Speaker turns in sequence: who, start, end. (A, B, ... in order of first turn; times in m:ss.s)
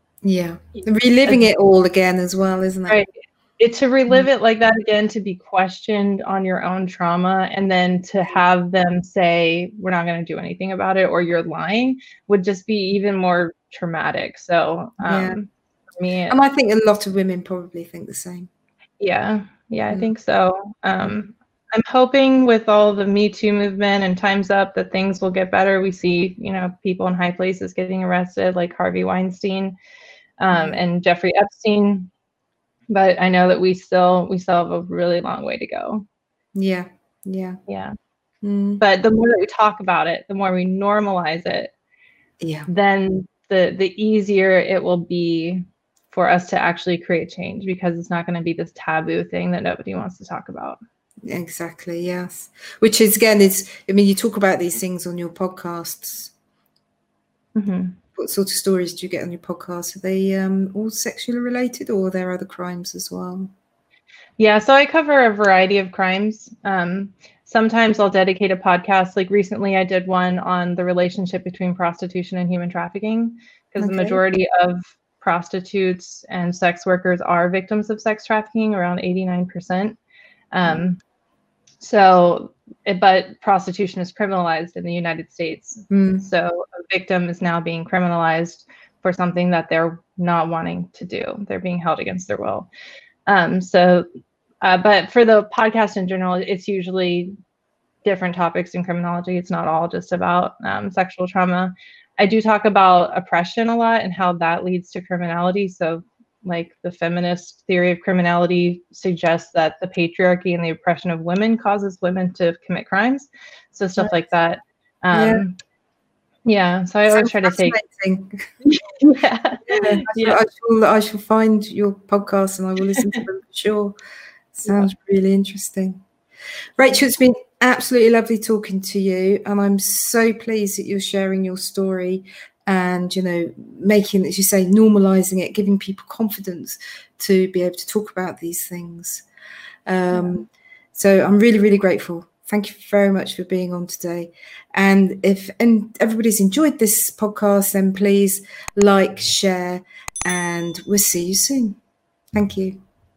0:00.2-0:03.0 A
0:00.8-0:01.5 B
0:02.9-0:16.4 B
0:15.0-0:15.4 A
0:16.3-0:18.5 A
0:19.0-0:29.8 B
0:30.4-0:32.1 B
0:30.5-0:30.8 A
0:32.9-0:36.0 B
0:36.6-0:37.6 A
0:37.7-0:37.9 B
0:38.4-0:38.8 A
0:38.8-0:41.7 B
0:42.4-0:42.7 A
0:42.7-0:50.8 B
0:51.2-0:56.3 A
0:57.6-0:58.0 B
0:58.2-1:03.5 A
1:04.4-1:20.0 B
1:13.8-1:14.2 A
1:20.5-1:21.0 B
1:21.8-1:32.7 B
1:25.9-1:26.3 A
1:33.3-1:34.1 B
1:34.6-1:37.3 B
1:38.0-1:55.6 B
1:55.1-1:55.4 A
1:56.4-1:57.8 B
1:57.1-1:58.5 A
1:58.6-2:00.4 B
1:59.7-2:04.0 A
2:04.5-2:06.0 A
2:06.8-2:19.2 A
2:19.9-2:31.8 A
2:20.1-2:20.4 B
2:32.3-2:32.8 A